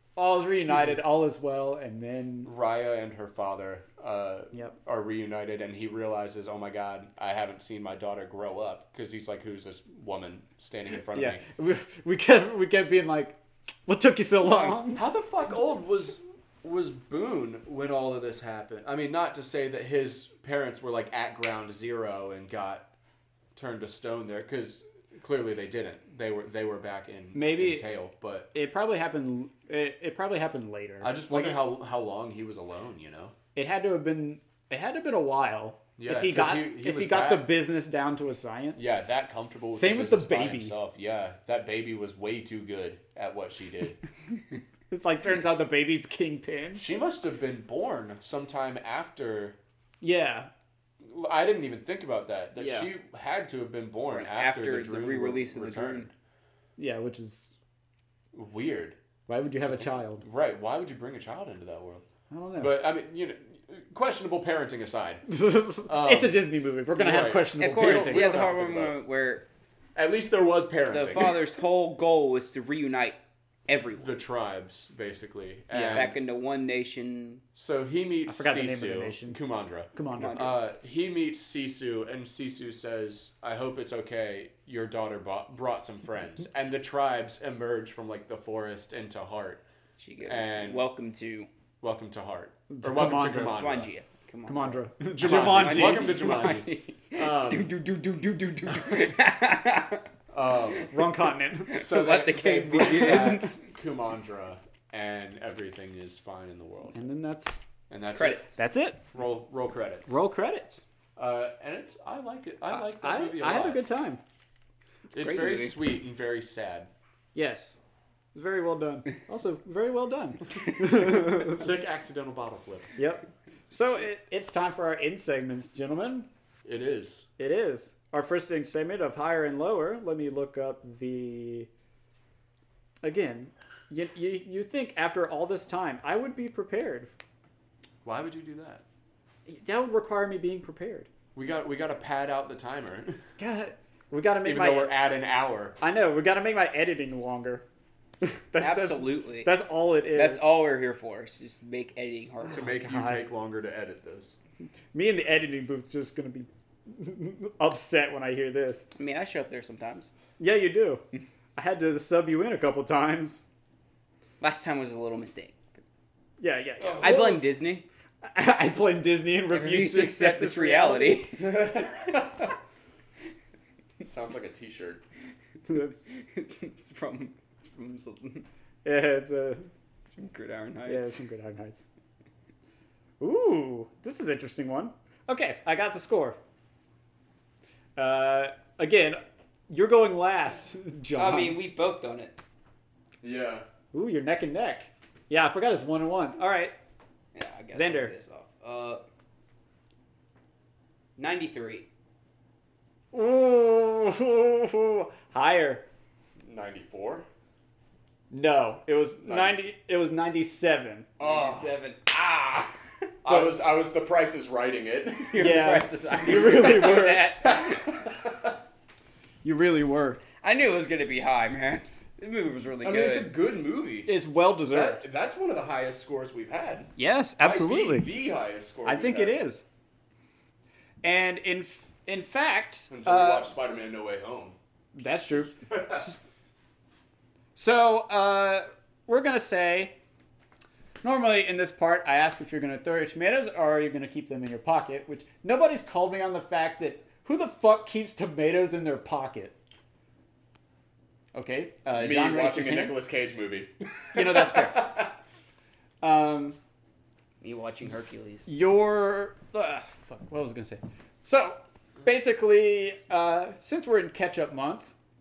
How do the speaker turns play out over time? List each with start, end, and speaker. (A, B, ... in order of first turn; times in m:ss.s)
0:00.2-0:02.5 A
0:02.4-0:11.4 B
0:11.1-0:15.0 A
0:14.4-0:14.7 C
0:14.9-0:22.9 B
0:23.6-0:28.5 B
0:27.3-0:27.9 A
0:28.5-0:31.6 A
0:31.0-0:33.4 B
0:33.6-0:38.9 A
0:36.0-0:37.5 B
0:38.8-0:44.0 B
0:39.7-0:40.8 A
0:44.9-0:46.8 A
0:46.8-0:49.6 B
0:50.0-0:50.5 A
0:51.0-0:56.1 B
0:52.6-0:52.9 A
0:54.1-0:56.1 C
0:56.8-0:57.5 A
0:58.3-0:59.0 B
0:59.3-1:00.2 A
0:59.6-1:02.0 B
1:02.3-1:02.8 A
1:02.6-1:05.3 B
1:05.3-1:08.5 A
1:05.9-1:09.0 B
1:07.6-1:09.5 C
1:10.0-1:11.4 B
1:10.9-1:14.1 C
1:14.0-1:16.2 B
1:15.7-1:17.4 C
1:17.6-1:29.6 B
1:18.3-1:19.4 A
1:19.9-1:20.4 A
1:20.2-1:20.6 C
1:30.0-1:31.5 C
1:30.2-1:30.9 B
1:31.8-1:33.9 B
1:32.7-1:33.6 A
1:33.5-1:40.1 C
1:34.5-1:36.6 A
1:35.1-1:37.7 B
1:40.3-1:40.9 B
1:40.9-1:41.8 A
1:41.7-1:43.5 C
1:41.7-1:47.0 B
1:46.9-1:47.6 A
1:47.9-1:50.2 B
1:48.2-1:48.5 C
1:48.6-1:49.0 A
1:50.1-1:50.8 A
1:51.2-1:53.8 B
1:52.7-1:54.2 A
1:55.1-1:55.8 C
1:55.1-1:56.9 B
1:57.4-1:57.8 A
1:58.3-2:01.6 A
2:01.1-2:02.9 B
2:03.0-2:06.3 A
2:06.6-2:07.3 B
2:07.4-2:11.7 A
2:13.0-2:17.1 A
2:18.0-2:18.8 B
2:19.5-2:21.1 A
2:21.4-2:23.2 B
2:23.4-2:24.9 A
2:24.4-2:25.8 B
2:25.8-2:27.6 A
2:28.2-2:30.5 A
2:28.6-2:29.5 C
2:30.1-2:32.7 C
2:32.5-2:34.4 B
2:32.6-2:33.2 A
2:34.9-2:38.9 A
2:39.0-2:40.1 C
2:40.4-2:41.0 A
2:41.6-2:43.4 A
2:44.4-2:45.8 C
2:46.4-2:47.4 A
2:46.8-2:47.4 B
2:47.0-2:47.8 C
2:48.3-2:51.2 A
2:49.5-2:51.8 C
2:51.4-2:52.5 B
2:54.0-2:55.0 B
2:55.7-2:56.0 A
2:56.1-2:58.5 C
2:58.8-2:59.7 A
3:00.1-3:01.2 C
3:00.9-3:01.8 A
3:03.2-3:06.4 A
3:08.0-3:11.6 A
3:11.2-3:12.3 C
3:13.2-3:13.7 B
3:13.9-3:16.7 A
3:17.3-3:19.0 C
3:17.7-3:18.1 A
3:21.2-3:21.9 C
3:23.1-3:25.8 A
3:26.4-3:27.3 B
3:28.3-3:31.1 A
3:29.2-3:29.6 B
3:31.2-3:31.8 B
3:31.2-3:32.8 C
3:33.2-3:35.5 B
3:35.2-3:38.1 C
3:35.4-3:37.3 A
3:37.4-3:38.6 B
3:39.4-3:40.2 A
3:40.4-3:43.3 C
3:42.8-3:44.2 B
3:44.1-3:45.0 A
3:44.7-3:49.4 B
3:47.0-3:48.1 A
3:48.8-3:49.6 A
3:51.0-3:53.5 A
3:52.9-3:54.6 B
3:55.0-3:56.1 A
3:55.8-3:56.0 B
3:57.6-3:59.9 A
4:01.0-4:09.6 A
4:11.3-4:13.0 A
4:11.9-4:15.1 B
4:14.1-4:15.1 A
4:16.0-4:16.6 A
4:17.4-4:18.5 C
4:18.5-4:24.9 A